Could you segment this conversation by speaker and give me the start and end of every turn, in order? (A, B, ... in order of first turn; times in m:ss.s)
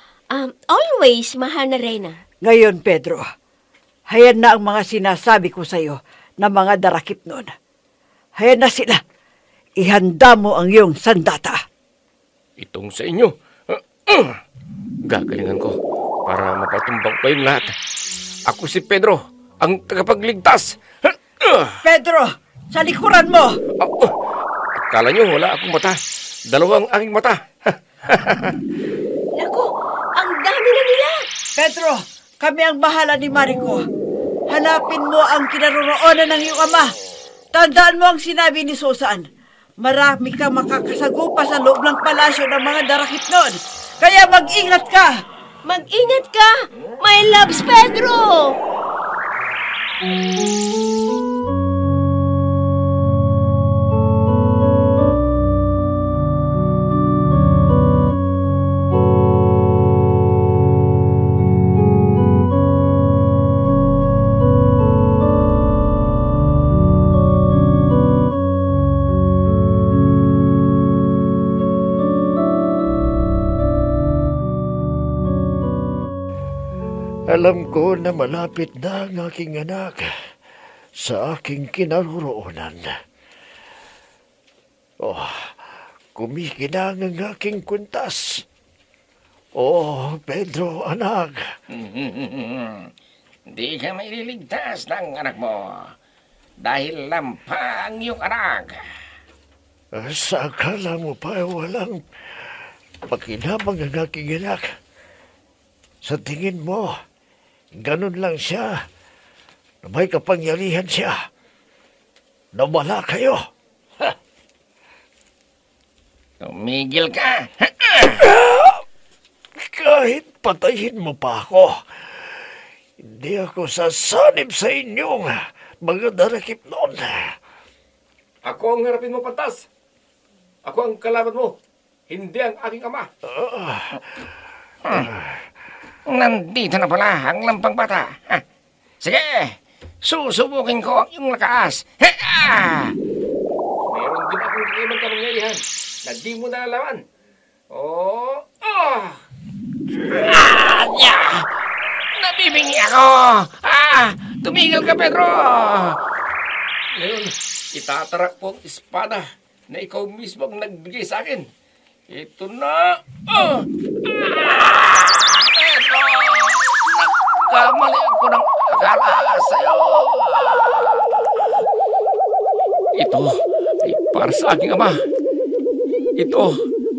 0:00.3-0:02.2 A
0:02.4-0:03.2 B
0:04.1-0:07.5 B
0:08.4-0:09.0 B
0:09.8-0:11.6 B
0:12.6-0:14.4 C
0:15.1-0:17.7 C
0:18.5-0:21.8 C
0:21.8-0:23.6 B
0:23.8-0:24.1 C
0:24.8-0:26.0 C
0:26.5-0:28.6 C
0:29.4-0:31.3 A
0:31.6-0:33.9 B
0:34.5-0:36.9 B
0:37.5-0:39.2 B
0:39.8-0:45.1 B
0:45.7-0:48.6 A
1:17.3-1:20.1 D
1:21.0-1:22.9 D
1:25.0-1:28.4 D
1:29.6-1:31.5 D
1:31.7-1:32.9 C
1:33.5-1:35.9 C
1:36.6-1:38.8 C
1:39.9-1:42.5 D
1:43.1-1:44.8 D
1:46.0-1:47.0 D
1:47.7-1:48.8 D
1:49.8-1:51.3 D
1:52.5-1:53.4 D
1:56.4-1:58.2 C
1:58.2-1:58.8 D
1:59.6-2:02.4 D
2:03.0-2:07.4 D
2:08.4-2:09.7 C
2:10.6-2:11.6 C
2:12.1-2:13.1 C
2:13.2-2:14.0 D
2:14.9-2:15.4 D
2:16.1-2:18.4 C
2:19.0-2:22.9 C
2:23.9-2:27.0 C
2:27.7-2:29.2 C
2:29.9-2:31.5 C
2:32.2-2:36.0 C
2:37.0-2:41.5 C
2:42.1-2:51.5 C
2:53.0-2:55.0 C
2:56.2-2:56.6 C